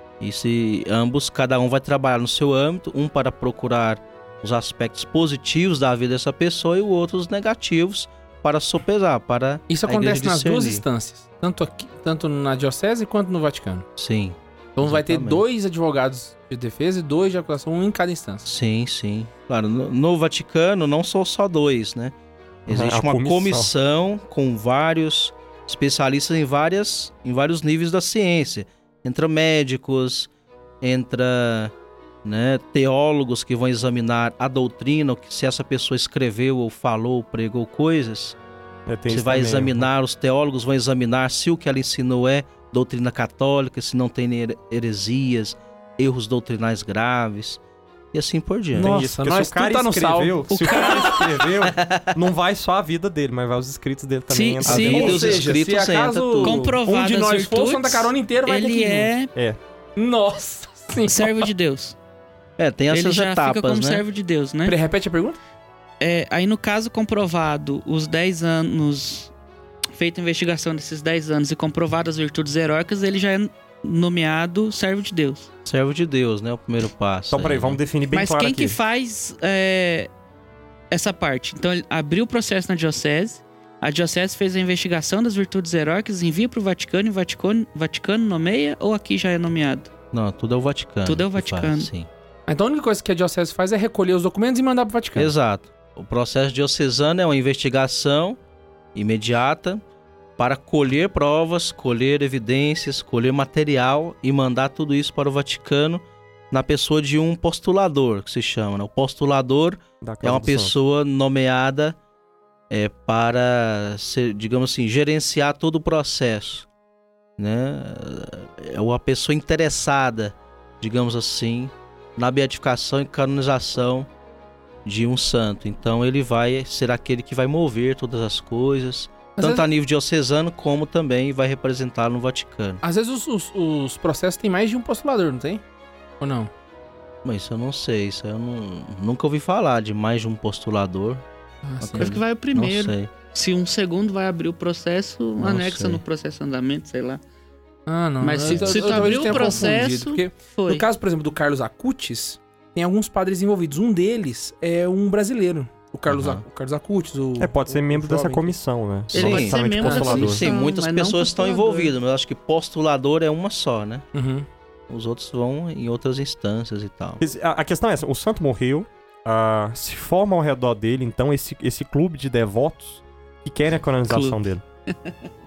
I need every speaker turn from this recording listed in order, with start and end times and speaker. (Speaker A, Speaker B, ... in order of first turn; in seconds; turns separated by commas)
Speaker A: 0.2-10.8, Speaker B: 9.7-13.8, Speaker A: 14.0-15.4, Speaker B: 14.8-18.5, Speaker A: 18.4-22.1, Speaker A: 22.7-30.3, Speaker C: 22.7-23.7, Speaker A: 30.8-31.7, Speaker A: 32.2-38.4, Speaker C: 38.9-39.9, Speaker A: 39.1-47.6, Speaker A: 48.1-48.9, Speaker B: 48.7-51.1, Speaker C: 48.8-55.4, Speaker D: 50.5-51.2, Speaker A: 51.7-52.1, Speaker D: 54.3-55.4, Speaker A: 54.6-56.7, Speaker B: 54.8-59.1, Speaker D: 56.4-59.3, Speaker B: 60.0-61.5, Speaker D: 61.0-62.0, Speaker A: 62.6-64.0, Speaker D: 62.9-64.8, Speaker B: 64.7-65.4, Speaker D: 66.0-69.3, Speaker D: 70.0-75.5, Speaker A: 75.7-77.8, Speaker C: 77.3-78.8, Speaker D: 78.1-80.1, Speaker D: 80.9-89.9, Speaker A: 90.1-92.1, Speaker D: 91.0-91.9, Speaker B: 92.5-95.3, Speaker A: 95.2-98.4, Speaker A: 98.9-99.8, Speaker A: 100.4-112.0, Speaker C: 110.0-110.7, Speaker A: 112.7-116.7, Speaker A: 117.4-124.1, Speaker A: 124.8-132.8, Speaker B: 129.4-129.7, Speaker B: 132.8-135.6, Speaker B: 136.2-136.5, Speaker A: 137.2-141.2, Speaker B: 141.6-142.2, Speaker A: 141.8-143.1, Speaker D: 141.9-147.2, Speaker A: 145.4-146.0, Speaker B: 147.9-158.5, Speaker D: 148.2-150.8, Speaker A: 148.5-149.4, Speaker A: 156.1-156.4, Speaker C: 157.4-160.5, Speaker D: 159.1-161.9, Speaker A: 159.1-164.1, Speaker B: 164.1-164.5, Speaker A: 164.9-167.2, Speaker C: 167.2-174.6, Speaker D: 174.1-174.4